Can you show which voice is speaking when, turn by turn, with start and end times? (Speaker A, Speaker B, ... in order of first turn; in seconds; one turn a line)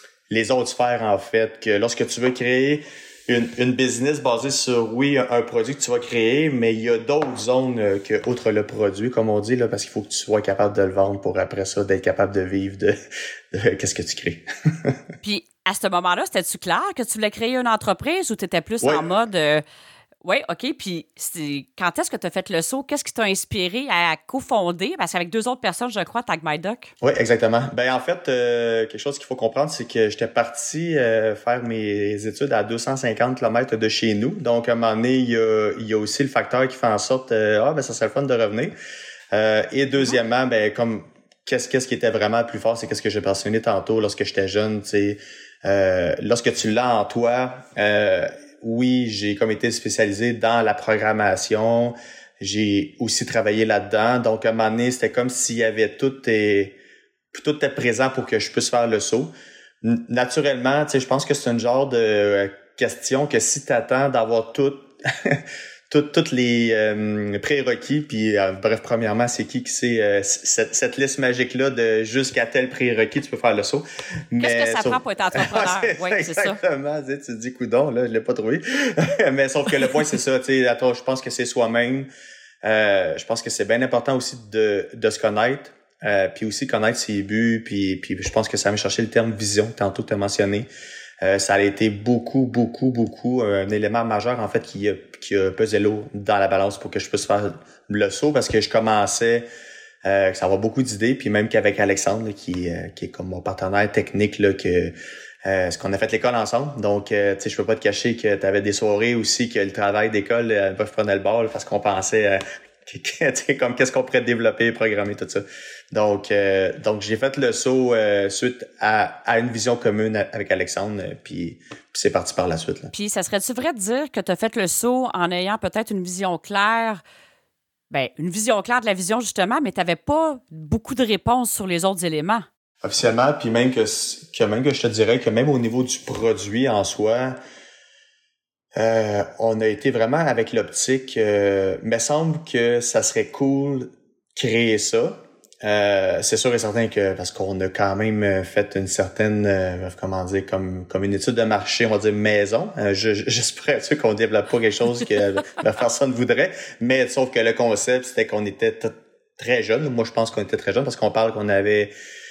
Speaker A: 0.3-12.9
Speaker A: 13.5-15.0
Speaker B: 15.2-19.6
Speaker A: 18.8-19.1
Speaker B: 20.2-26.9
Speaker A: 27.0-38.7
Speaker A: 39.3-56.8
Speaker A: 57.3-59.3
Speaker A: 59.8-82.1
Speaker B: 74.4-76.6
Speaker A: 82.6-90.7
Speaker A: 91.2-99.5
Speaker A: 100.0-104.9
Speaker A: 105.4-122.9
Speaker B: 122.9-127.0
Speaker B: 127.9-132.5
Speaker A: 132.8-137.4
Speaker A: 138.8-161.9